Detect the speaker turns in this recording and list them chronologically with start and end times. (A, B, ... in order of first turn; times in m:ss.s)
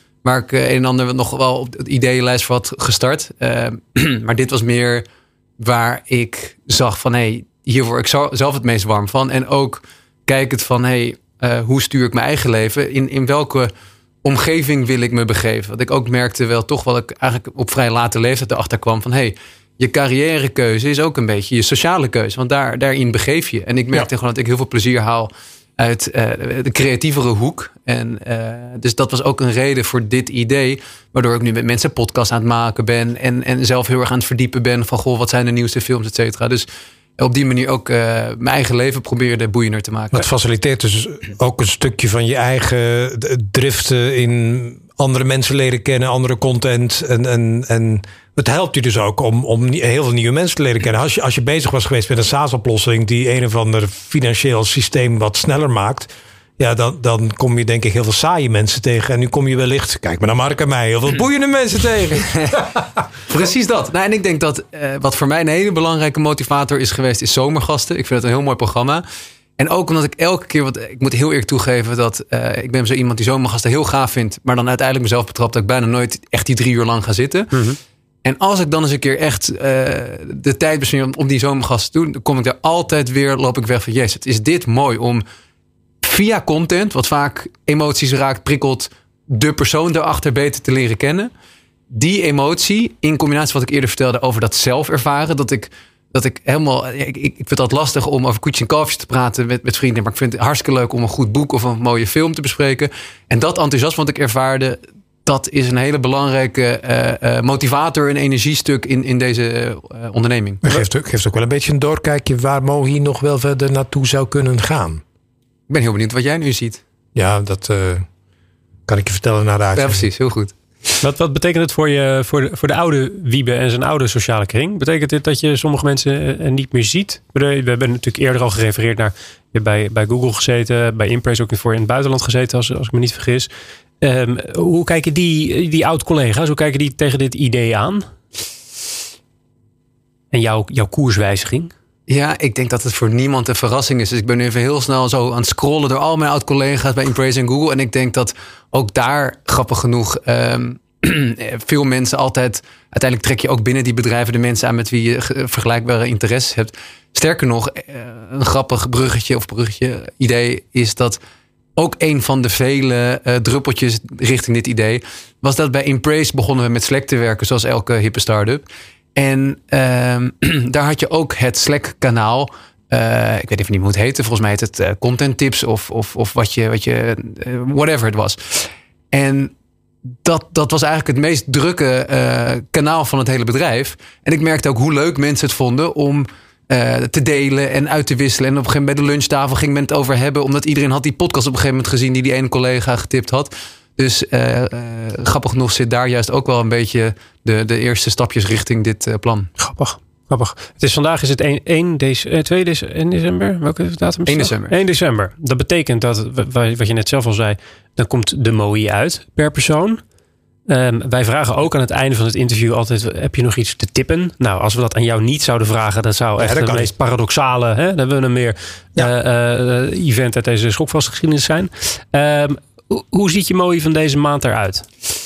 0:00.2-0:05.0 A
0:05.6-0:13.7 A
0:14.2-0:36.6 A
0:37.2-0:40.2 A
0:40.1-1:02.3 B
1:02.3-1:02.6 A
1:03.3-1:09.0 A
1:09.6-1:17.6 A
1:17.5-1:17.8 C
1:18.2-1:25.2 A
1:26.0-1:31.3 A
1:31.9-1:50.7 A
1:50.6-1:55.0 B
1:55.7-1:56.8 A
1:57.1-1:58.0 B
1:58.9-2:00.1 B
1:59.8-2:00.6 A
2:01.0-2:13.5 C
2:14.0-2:18.0 C
2:20.3-2:21.7 C
2:22.1-2:41.2 A
2:41.8-2:48.6 A
2:49.1-2:59.5 A
3:00.2-3:19.5 A
3:19.6-3:30.0 C
3:24.3-3:24.7 A
3:30.7-3:44.8 C
3:36.4-3:36.9 B